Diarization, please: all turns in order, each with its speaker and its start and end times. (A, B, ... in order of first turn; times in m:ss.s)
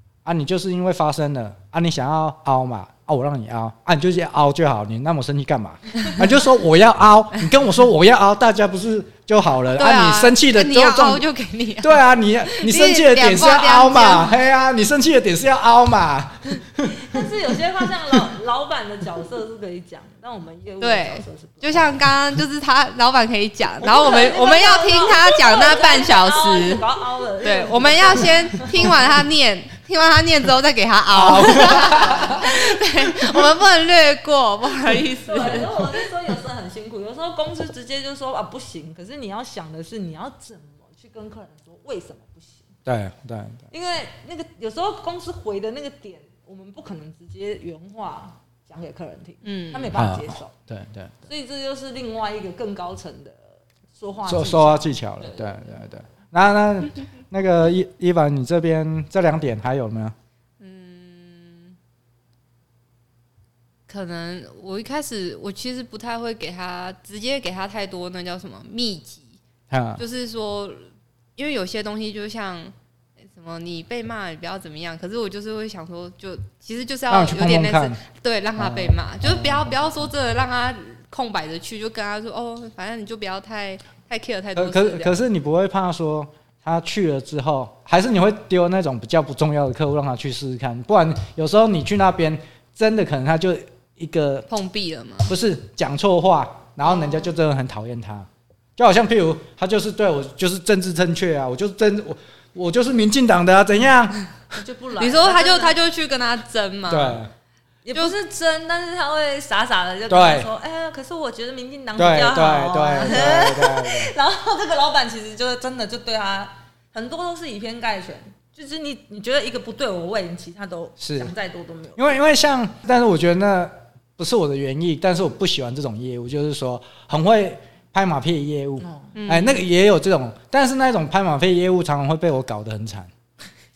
0:00.2-0:11.2 A
0:09.7-0:14.3 B
0:11.8-0:17.2 A
0:16.8-0:22.0 C
0:20.8-0:26.8 B
0:23.8-0:29.0 C
0:27.4-0:35.9 B
0:31.1-0:32.4 A
0:31.6-0:32.4 C
0:35.2-0:42.7 C
0:42.8-0:43.6 A
0:43.7-0:50.5 C
0:49.4-0:49.9 B
0:49.9-0:51.1 A
0:51.2-0:55.8 C
0:54.2-1:00.1 A
1:00.6-1:01.8 B
1:03.9-1:09.4 B
1:09.7-1:10.0 A
1:10.0-1:10.8 B
1:11.4-1:12.7 B
1:13.3-1:25.2 B
1:17.1-1:18.0 A
1:18.6-1:19.8 A
1:24.5-1:34.5 A
1:34.5-1:35.3 B
1:35.3-1:44.2 A
1:36.8-1:37.3 B
1:44.5-1:45.8 C
1:45.0-1:47.2 B
1:46.9-1:47.3 A
1:47.8-2:02.2 C
1:50.1-1:50.5 A
1:52.0-1:54.1 A
2:01.0-2:01.3 A
2:02.0-2:13.1 A
2:08.8-2:09.2 C
2:09.2-2:09.6 B